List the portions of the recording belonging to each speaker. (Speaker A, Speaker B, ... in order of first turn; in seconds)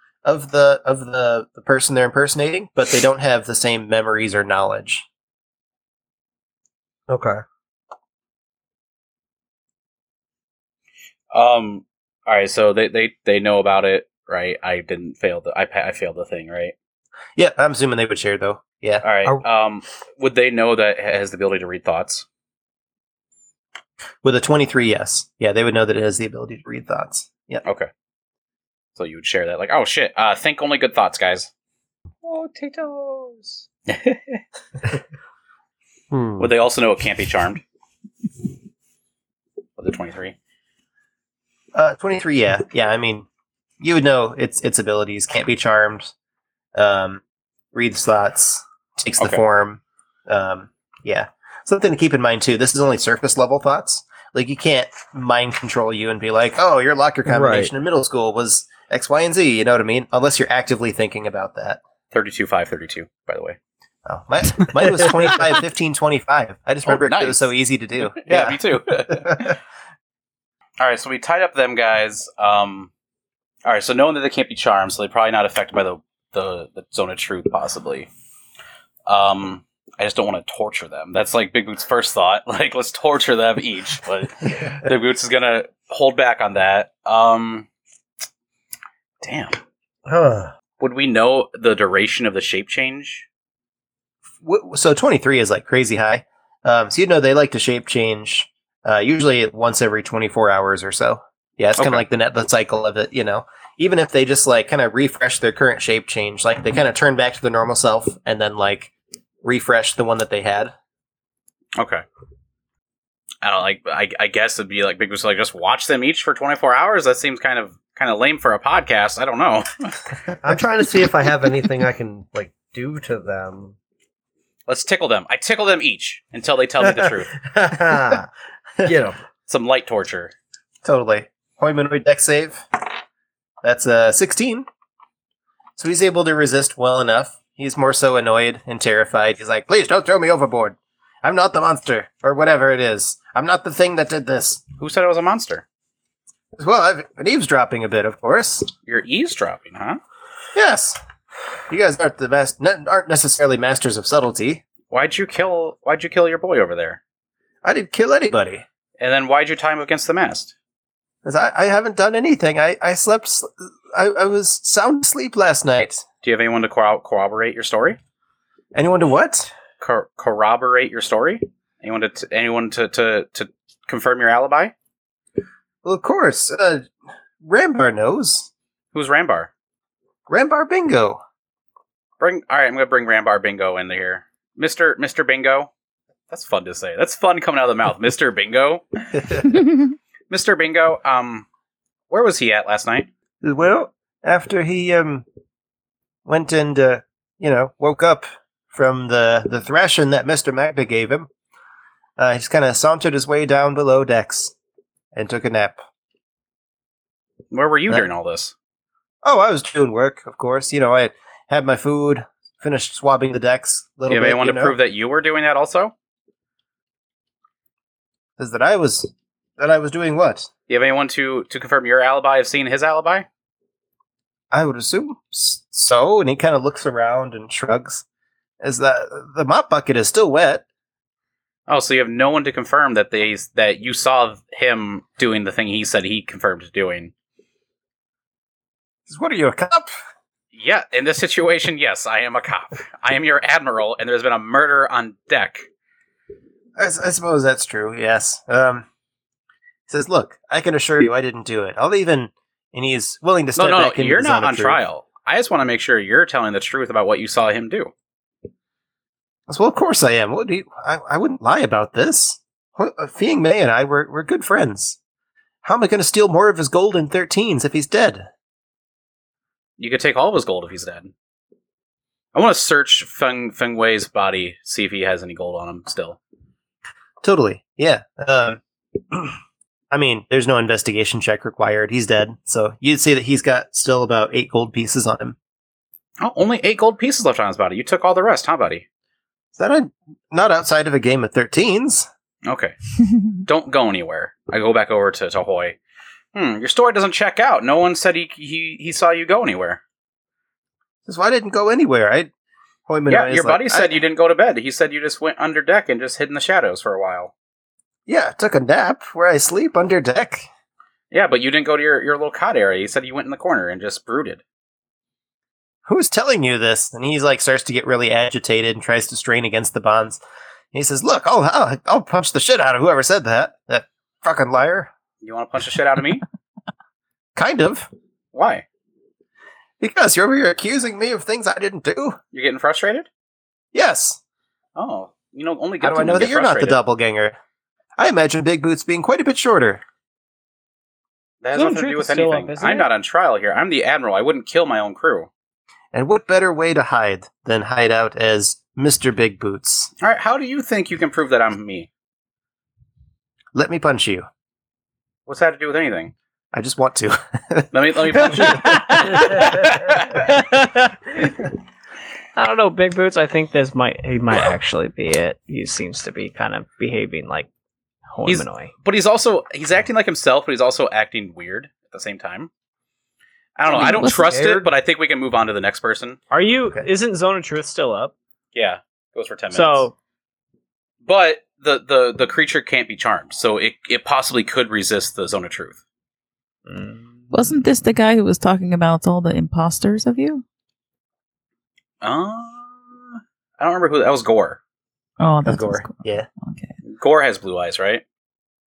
Speaker A: 0.2-5.1, 17.4-19.1, 24.2-27.6, 41.7-43.3, 43.8-46.1, 46.8-47.2, 47.7-61.8, 64.1-69.5, 94.4-108.9, 109.4-110.7, 130.8-132.8, 133.6-134.7, 135.8-144.6, 146.6-148.7, 150.6-151.0, 151.7-154.6, 157.6-158.6, 161.2-166.1, 168.7-169.5, 175.8-176.9, 177.4-178.5, 180.3-181.2, 193.4-195.2, 196.3-201.3, 202.2-204.5, 205.2-205.8, 209.2-214.8, 218.4-220.5, 224.5-228.0, 228.6-230.6, 239.1-239.9, 246.8-248.9, 249.9-254.8, 259.5-265.0, 265.6-268.3, 277.2-278.6, 279.9-285.4, 289.6-292.1, 301.1-302.3, 302.9-303.9, 308.1-310.5, 315.9-320.2, 320.7-324.9, 327.4-327.9, 329.8-332.2, 333.7-334.2, 335.8-337.4, 338.0-339.8, 345.9-349.9, 353.5-354.3, 356.5-357.7, 358.2-358.5, 395.4-396.3
Speaker B: 7.1-7.4, 36.1-36.5, 57.3-57.7, 90.1-90.5, 120.4-123.8, 126.8-128.3, 128.8-129.2, 373.7-374.7
Speaker C: 11.3-16.7, 19.0-22.2, 27.6-27.9, 29.0-31.5, 32.2-34.4, 36.4-37.6, 39.8-40.4, 62.1-63.6, 66.8-67.5, 68.0-69.6, 70.8-72.9, 73.7-78.1, 79.1-87.7, 89.2-89.6, 90.8-93.3, 101.8-102.0, 111.8-112.0, 113.4-120.0, 124.7-127.5, 129.5-130.3, 144.8-145.6, 148.9-150.0, 154.9-157.0, 159.0-160.5, 166.2-168.0, 169.8-174.7, 178.9-179.5, 182.2-185.7, 186.3-189.5, 190.3-191.5, 192.1-193.1, 207.5-208.5, 214.1-215.9, 220.7-223.3, 231.7-237.1, 240.5-245.7, 253.6-257.9, 269.8-271.1, 272.3-276.2, 286.2-288.9, 292.4-292.7, 293.3-295.8, 296.3-299.8, 303.1-307.3, 311.1-314.4, 325.2-326.2, 328.3-328.6, 332.3-333.1, 334.8-336.8, 341.4-345.3, 350.0-351.9, 355.3-356.1, 357.7-360.2, 368.2-372.5, 373.6-376.2, 378.6-379.9, 381.1-385.8, 392.0-394.6, 396.8-398.0
Speaker D: 341.5-342.9, 358.3-361.3, 362.4-367.5, 368.1-368.7, 376.3-378.1, 379.5-379.9, 386.7-387.2
Speaker E: 387.3-390.4, 395.2-396.7